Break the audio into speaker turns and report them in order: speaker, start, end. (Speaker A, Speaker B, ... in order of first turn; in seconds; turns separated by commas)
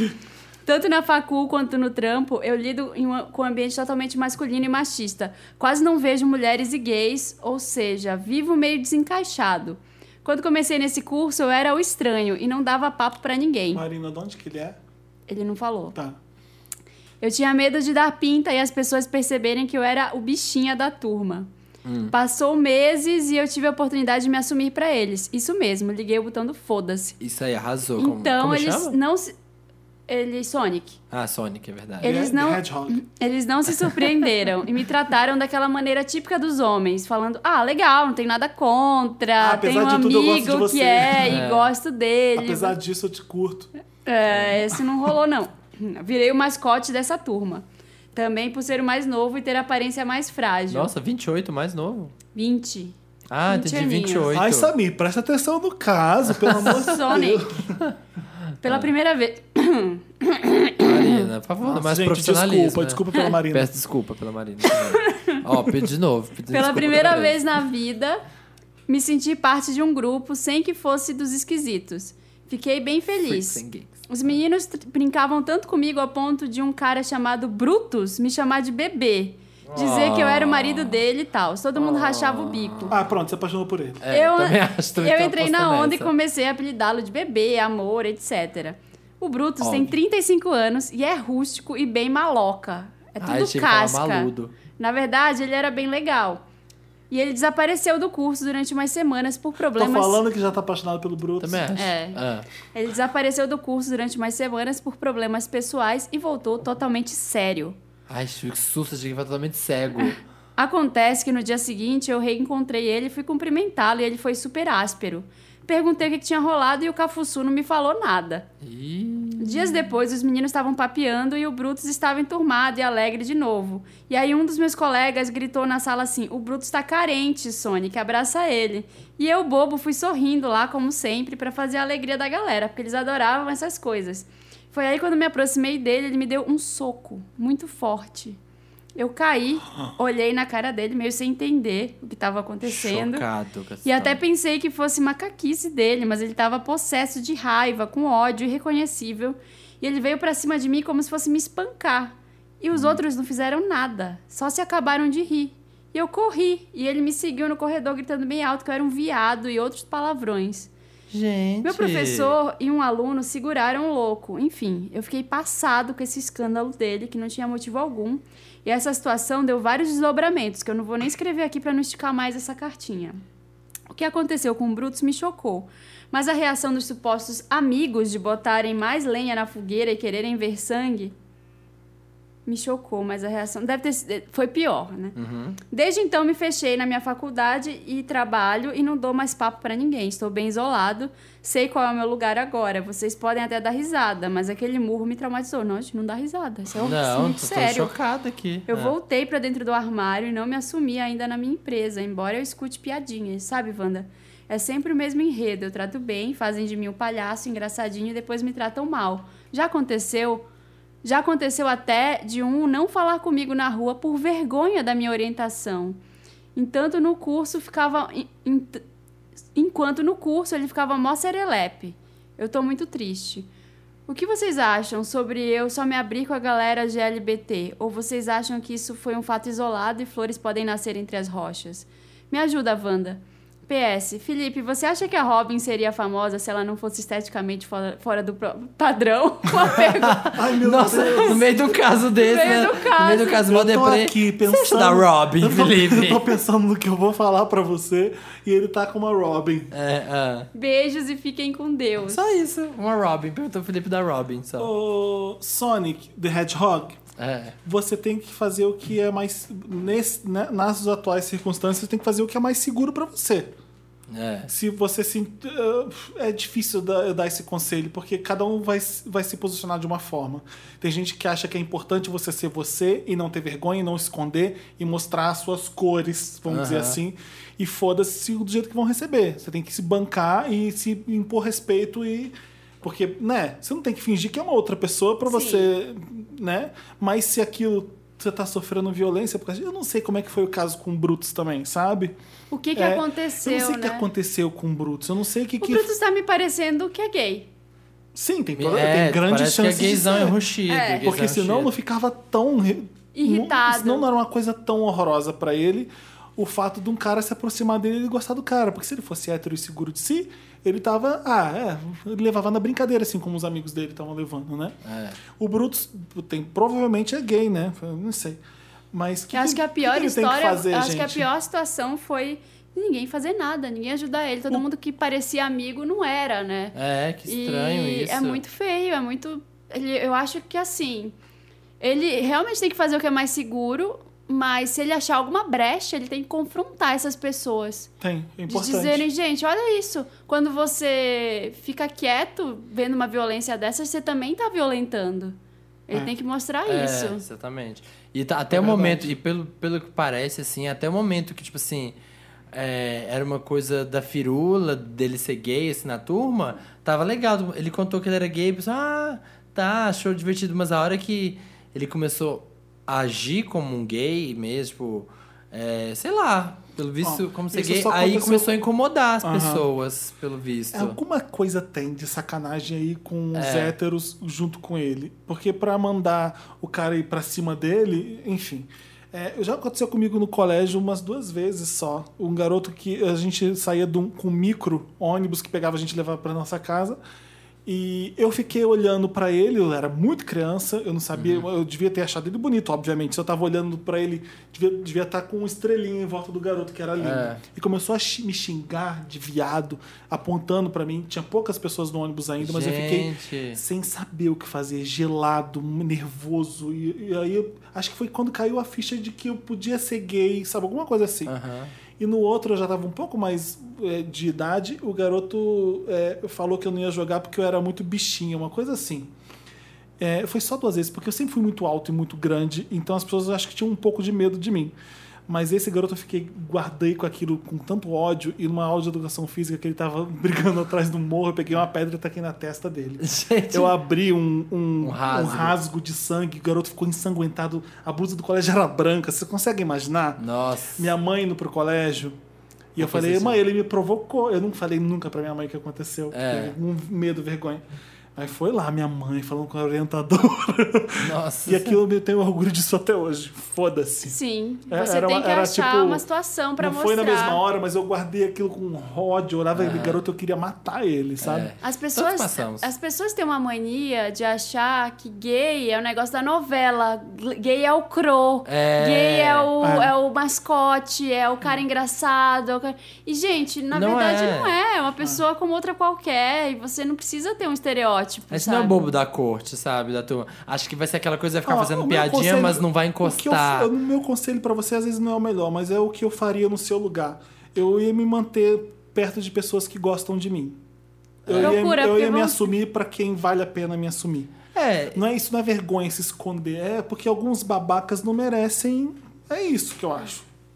Speaker A: 0.6-13.8, Speaker B: 13.7-14.8, Speaker A: 15.3-15.9, Speaker A: 17.2-21.5, Speaker C: 21.8-22.1, Speaker A: 22.1-27.1, Speaker C: 27.2-28.9, Speaker A: 28.0-29.3, Speaker A: 30.1-31.0, Speaker C: 31.1-32.2, Speaker B: 32.0-33.0, Speaker A: 32.0-42.8, Speaker B: 39.4-41.4, Speaker C: 41.2-41.7, Speaker B: 42.4-43.7, Speaker A: 44.0-47.6, Speaker C: 44.3-44.6, Speaker A: 48.1-50.9, Speaker C: 50.7-52.1, Speaker A: 52.3-52.9, Speaker C: 53.3-54.7, Speaker A: 53.5-54.3, Speaker B: 54.3-57.8, Speaker C: 56.4-56.8, Speaker A: 56.6-57.5, Speaker C: 58.6-58.9, Speaker A: 58.6-61.2, Speaker C: 60.8-67.4, Speaker B: 61.6-63.8, Speaker A: 64.7-65.4, Speaker A: 66.5-68.2, Speaker A: 68.9-83.0, Speaker C: 73.2-74.3, Speaker C: 79.7-81.0, Speaker C: 81.8-83.0, Speaker B: 82.9-84.0, Speaker C: 84.0-86.1, Speaker A: 84.1-96.4, Speaker C: 89.6-89.9, Speaker C: 93.2-94.5, Speaker A: 97.1-100.2, Speaker B: 99.7-101.7, Speaker C: 101.4-102.5, Speaker A: 101.7-102.2, Speaker A: 102.7-107.8, Speaker C: 108.1-110.2, Speaker A: 110.0-118.5, Speaker C: 118.6-119.8, Speaker A: 119.4-138.4, Speaker A: 138.9-143.2, Speaker C: 142.6-144.2, Speaker A: 143.8-160.7, Speaker C: 152.7-153.0, Speaker C: 161.1-162.3, Speaker A: 161.6-173.2, Speaker A: 173.9-181.1, Speaker A: 182.4-185.2, Speaker C: 185.2-185.6, Speaker A: 185.7-197.9, Speaker C: 196.7-198.9, Speaker A: 198.7-210.4, Speaker A: 211.0-216.0, Speaker A: 216.5-218.8, Speaker A: 219.5-223.5, Speaker A: 224.1-241.4, Speaker C: 239.8-246.3, Speaker B: 240.2-241.4, Speaker A: 242.1-243.4, Speaker B: 243.4-249.7, Speaker C: 249.7-250.5, Speaker A: 250.5-252.3, Speaker C: 252.1-254.7, Speaker B: 254.6-257.0, Speaker C: 257.2-257.6, Speaker B: 257.6-263.5, Speaker C: 264.1-264.5, Speaker B: 264.5-292.1, Speaker C: 276.5-277.0, Speaker A: 285.3-285.7, Speaker A: 292.5-294.1, Speaker B: 292.7-295.9, Speaker A: 295.6-297.5, Speaker B: 298.1-300.4, Speaker C: 298.6-301.7, Speaker A: 300.7-301.1, Speaker B: 301.0-314.8, Speaker A: 303.1-304.1, Speaker C: 314.8-315.2, Speaker B: 315.4-318.4, Speaker B: 318.9-321.3, Speaker A: 319.3-326.7, Speaker C: 326.7-328.4, Speaker A: 327.3-331.1, Speaker A: 331.8-337.9, Speaker B: 338.0-339.1, Speaker A: 338.5-345.4, Speaker A: 345.9-347.2, Speaker C: 346.6-351.9, Speaker B: 348.5-349.1, Speaker C: 352.5-371.0, Speaker B: 367.0-368.5, Speaker B: 369.2-369.6, Speaker B: 370.7-387.0, Speaker C: 373.3-373.7, Speaker B: 387.6-411.3, Speaker C: 391.1-391.4, Speaker C: 397.0-397.4, Speaker C: 402.4-403.6, Speaker C: 411.2-411.7, Speaker B: 412.0-419.1, Speaker B: 420.0-424.7, Speaker B: 425.3-440.2, Speaker C: 433.0-433.7, Speaker C: 434.8-435.5, Speaker C: 440.2-440.9, Speaker B: 440.8-442.1, Speaker B: 442.7-447.6, Speaker C: 442.8-443.4, Speaker C: 446.1-446.5, Speaker B: 448.1-454.2, Speaker C: 451.0-451.8, Speaker A: 454.1-457.4, Speaker B: 454.7-456.0, Speaker B: 456.6-461.5, Speaker C: 459.5-460.0, Speaker C: 461.2-462.7, Speaker A: 461.6-478.8, Speaker C: 468.4-469.5, Speaker B: 469.6-469.9, Speaker C: 473.7-474.5, Speaker C: 478.3-483.7, Speaker B: 481.4-490.6, Speaker C: 491.2-491.6, Speaker B: 491.2-494.4, Speaker A: 491.4-492.5, Speaker C: 494.5-495.0, Speaker B: 494.9-500.2